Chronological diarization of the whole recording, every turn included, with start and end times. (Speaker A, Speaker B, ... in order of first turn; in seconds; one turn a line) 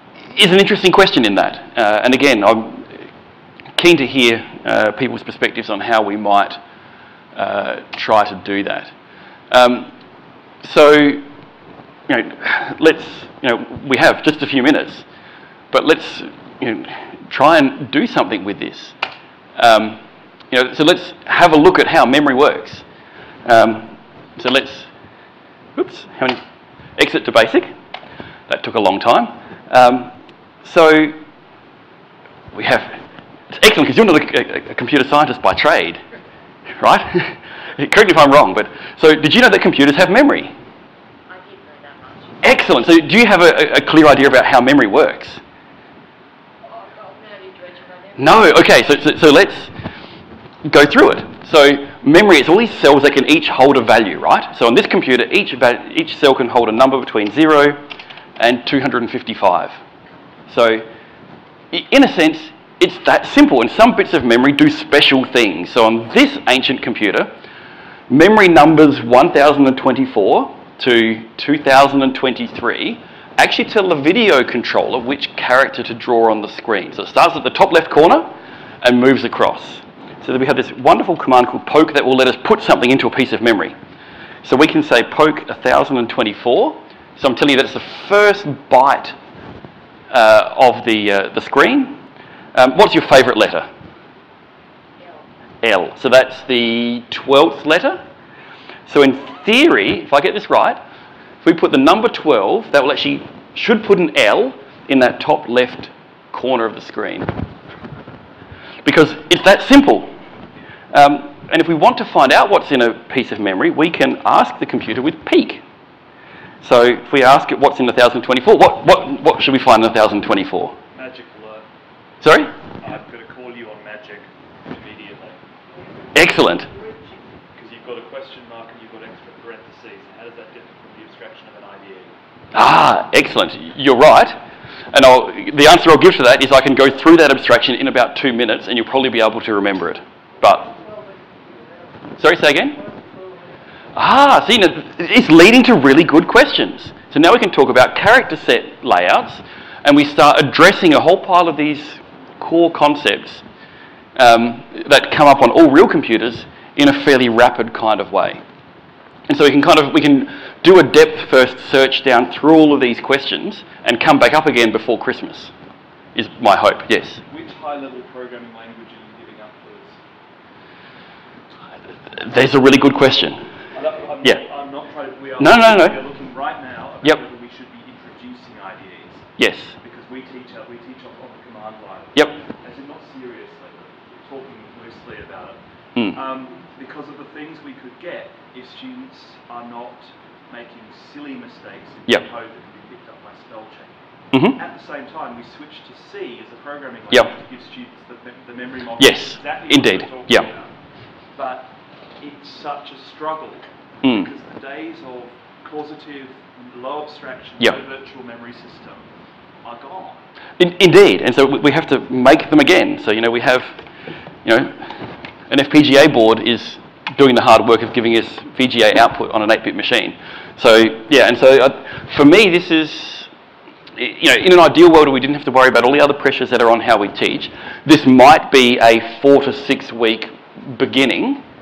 Speaker A: 0.3-3.0
Speaker A: 3.8-6.6
Speaker A: 7.3-8.9
Speaker A: 9.5-9.9
Speaker A: 10.6-11.2
Speaker A: 12.1-15.1
Speaker A: 15.7-18.9
Speaker A: 19.6-22.8
Speaker A: 23.4-24.9
Speaker A: 25.8-26.4
Speaker A: 27.0-27.7
Speaker A: 28.5-31.1
Speaker A: 32.5-36.0
Speaker A: 36.8-40.5
Speaker B: 41.3-42.6
Speaker A: 42.4-45.4
Speaker B: 46.6-49.1
Speaker A: 48.2-49.7
Speaker A: 50.7-57.8
Speaker A: 58.4-59.8
Speaker A: 60.5-60.9
Speaker A: 61.7-67.3
Speaker A: 68.1-78.3
Speaker A: 78.8-83.7
Speaker A: 84.4-89.2
Speaker A: 90.1-92.0
Speaker A: 92.5-93.7
Speaker B: 95.0-95.5
Speaker A: 95.6-98.0
Speaker A: 98.9-100.8
Speaker A: 101.4-107.3
Speaker A: 108.8-110.1
Speaker A: 110.9-115.6
Speaker A: 116.6-120.8
Speaker C: 120.9-121.7
Speaker A: 122.2-122.5
Speaker C: 122.7-125.4
Speaker B: 125.7-127.5
Speaker A: 126.2-126.7
Speaker C: 127.5-132.2
Speaker A: 132.5-134.4
Speaker A: 134.9-140.6
Speaker B: 140.4-143.7
Speaker A: 142.2-142.8
Speaker A: 143.9-153.4
Speaker A: 154.2-158.4
Speaker A: 159.3-165.5
Speaker A: 166.2-167.2
Speaker C: 167.3-170.0
Speaker A: 172.1-173.4
Speaker C: 173.7-200.7
Speaker A: 175.4-176.0
Speaker A: 179.4-179.8
Speaker A: 194.3-194.6
Speaker A: 199.0-200.5
Speaker C: 201.3-209.1
Speaker A: 204.0-204.3
Speaker C: 209.6-210.3
Speaker A: 210.6-213.7
Speaker A: 214.4-223.3
Speaker A: 223.9-231.4